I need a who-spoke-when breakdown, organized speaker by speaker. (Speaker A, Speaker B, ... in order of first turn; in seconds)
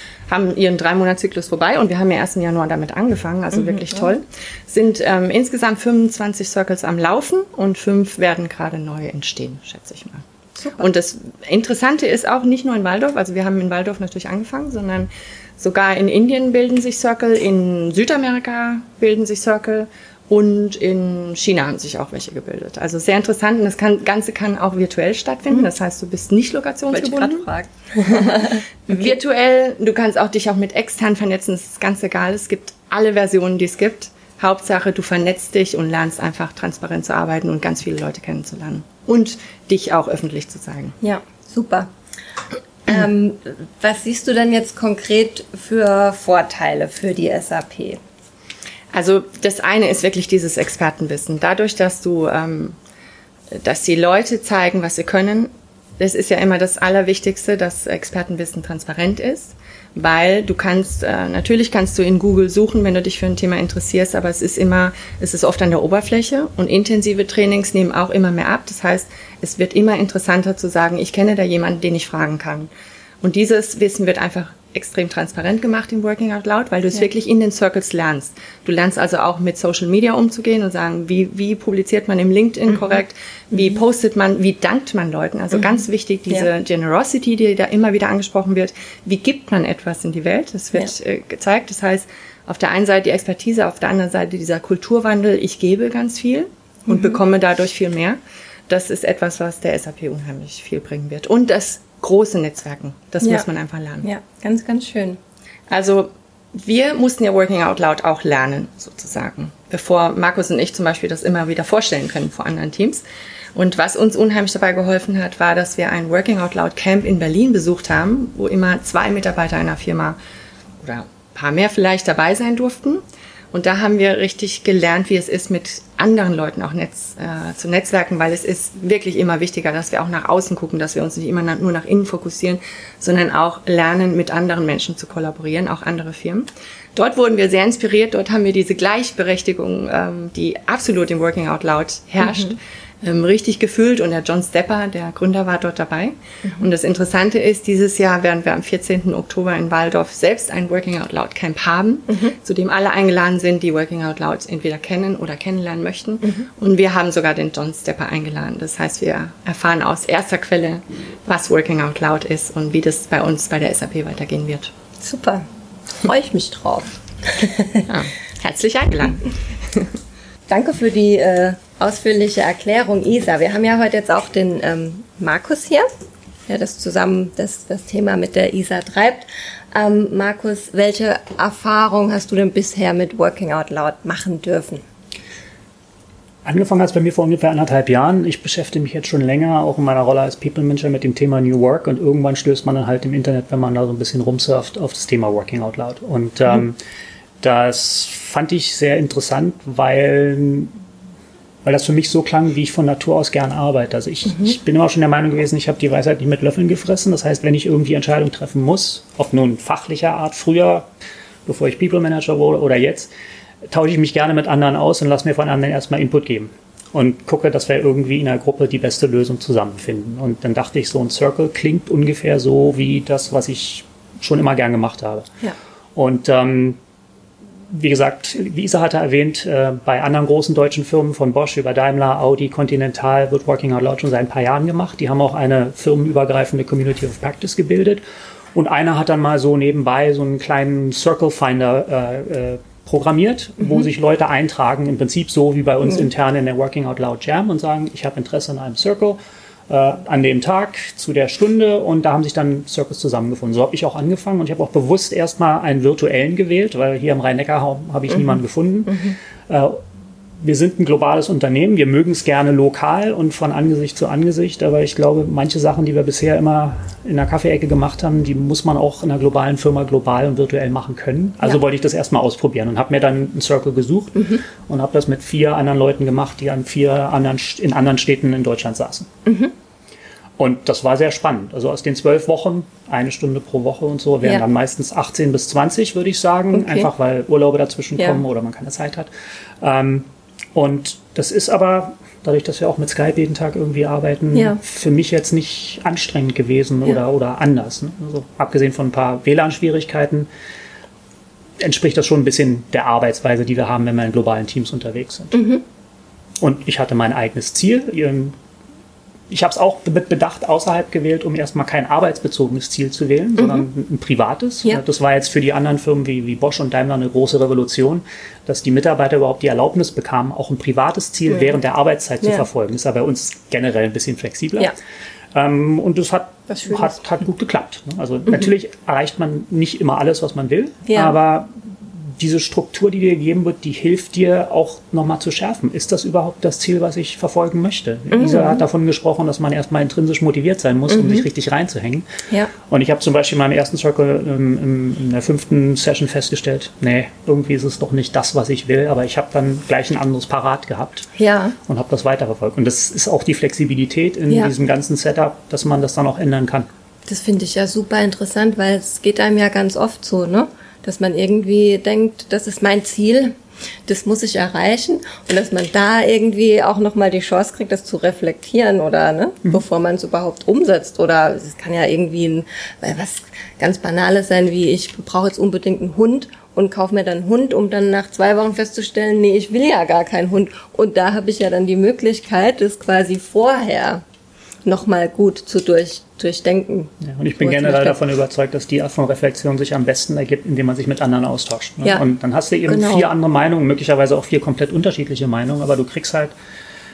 Speaker A: 0.3-10.2, 10.8-27.5, 28.1-41.0, 48.9-52.8, 53.5-72.7, 73.2-98.2, 98.7-104.1, 105.7-113.0, 113.5-120.2, 120.8-164.7, 167.9-169.9
Speaker B: 3.5-4.1, 10.6-10.9, 26.9-29.0, 41.0-41.9, 42.9-48.0, 96.9-97.2, 104.0-105.2, 142.2-142.5, 152.1-152.3, 165.0-165.5, 166.0-167.9, 170.5-175.9, 176.5-184.8, 274.2-274.4, 279.3-279.5, 286.5-286.9, 305.3-305.6, 313.4-313.6, 326.5-327.0, 330.9-331.1, 338.1-338.6, 340.9-341.2, 351.2-351.6, 357.1-363.3, 363.9-384.0, 384.6-388.0, 392.7-393.1
Speaker C: 186.4-196.8, 197.4-200.7, 201.6-210.9, 211.5-213.1, 213.7-225.3, 226.0-226.8, 227.7-238.0, 238.6-259.8, 260.4-279.1, 280.4-289.1, 289.6-300.3, 301.6-305.4, 306.4-308.4, 309.3-324.7, 325.3-331.5, 332.2-342.1, 342.7-351.1, 351.7-356.7, 387.0-396.3